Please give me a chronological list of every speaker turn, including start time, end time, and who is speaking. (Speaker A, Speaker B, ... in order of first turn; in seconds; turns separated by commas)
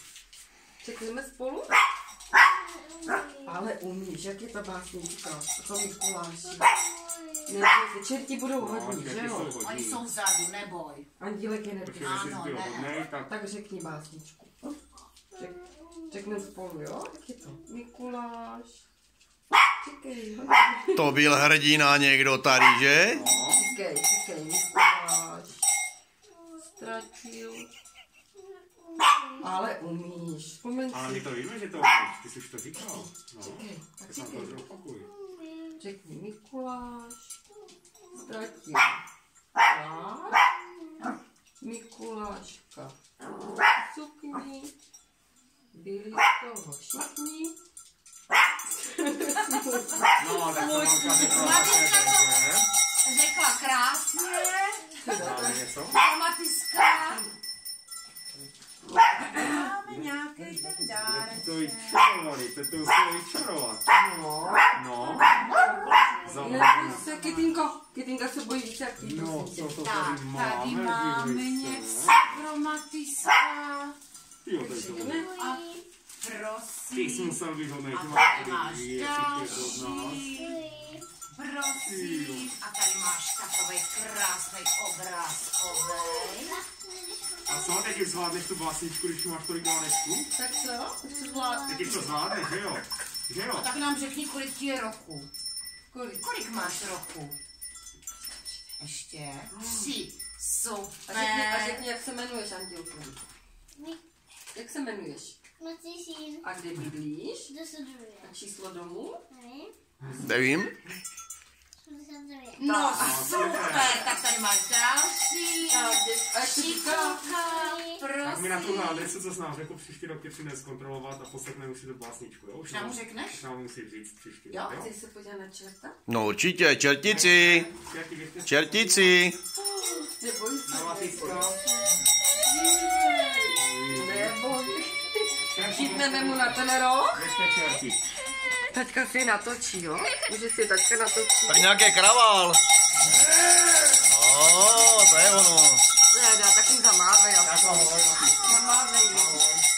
Speaker A: 0.8-1.7, Speaker B: 2.8-3.5, Speaker A: 3.4-6.7, Speaker B: 6.8-7.4, Speaker A: 7.5-9.5, Speaker C: 8.6-10.0, Speaker D: 9.6-11.1, Speaker A: 11.2-12.2, Speaker C: 11.8-13.3, Speaker D: 12.0-12.9, Speaker A: 13.3-14.5, Speaker A: 15.3-18.8, Speaker A: 19.8-21.3, Speaker E: 20.9-23.2, Speaker C: 23.1-23.6, Speaker A: 23.5-25.6, Speaker A: 26.6-27.7, Speaker A: 29.4-31.3, Speaker C: 30.9-35.1, Speaker A: 32.7-34.6, Speaker B: 35.2-35.7, Speaker A: 35.8-37.4, Speaker A: 38.1-39.0, Speaker A: 39.6-40.5, Speaker A: 41.6-43.0, Speaker A: 43.8-44.7, Speaker A: 45.7-47.5, Speaker A: 48.7-51.7, Speaker C: 50.1-52.7, Speaker D: 51.1-52.4, Speaker D: 53.0-55.0, Speaker A: 55.0-55.6, Speaker C: 55.1-56.0, Speaker D: 55.9-57.3, Speaker D: 59.2-61.9, Speaker C: 60.9-65.4, Speaker D: 65.2-67.6, Speaker C: 66.2-67.1, Speaker A: 66.3-69.8, Speaker C: 69.0-72.3, Speaker D: 69.8-74.0, Speaker C: 74.4-75.3, Speaker A: 74.6-75.3, Speaker B: 75.0-75.8, Speaker D: 75.2-80.6, Speaker C: 76.9-80.3, Speaker B: 80.2-81.0, Speaker D: 81.3-86.6, Speaker C: 81.8-82.5, Speaker B: 86.3-87.6, Speaker C: 87.5-90.3, Speaker A: 90.3-92.0, Speaker B: 91.0-92.0, Speaker C: 91.7-93.7, Speaker D: 93.5-95.3, Speaker A: 95.9-96.2, Speaker D: 96.1-97.3, Speaker A: 98.2-98.8, Speaker D: 98.8-101.8, Speaker A: 99.5-99.9, Speaker A: 101.0-103.2, Speaker A: 104.5-105.4, Speaker B: 105.6-106.4, Speaker A: 106.4-107.5, Speaker B: 107.5-108.2, Speaker A: 108.2-109.2, Speaker B: 109.3-109.7, Speaker C: 110.0-110.3, Speaker E: 110.2-110.7, Speaker B: 111.8-112.8, Speaker D: 112.6-119.2, Speaker A: 112.7-113.2, Speaker C: 112.9-114.1, Speaker A: 115.7-117.3, Speaker B: 117.4-118.0, Speaker C: 118.2-124.9, Speaker D: 122.7-123.4, Speaker A: 124.7-126.0, Speaker E: 126.1-127.7, Speaker C: 127.0-129.2, Speaker E: 128.4-129.3, Speaker A: 129.8-131.8, Speaker C: 130.7-131.6, Speaker A: 132.4-137.3, Speaker C: 133.6-134.4, Speaker C: 135.5-138.0, Speaker A: 138.7-141.7, Speaker E: 141.5-142.6, Speaker E: 144.0-145.8, Speaker A: 146.1-149.4, Speaker C: 147.4-148.5, Speaker C: 149.1-149.6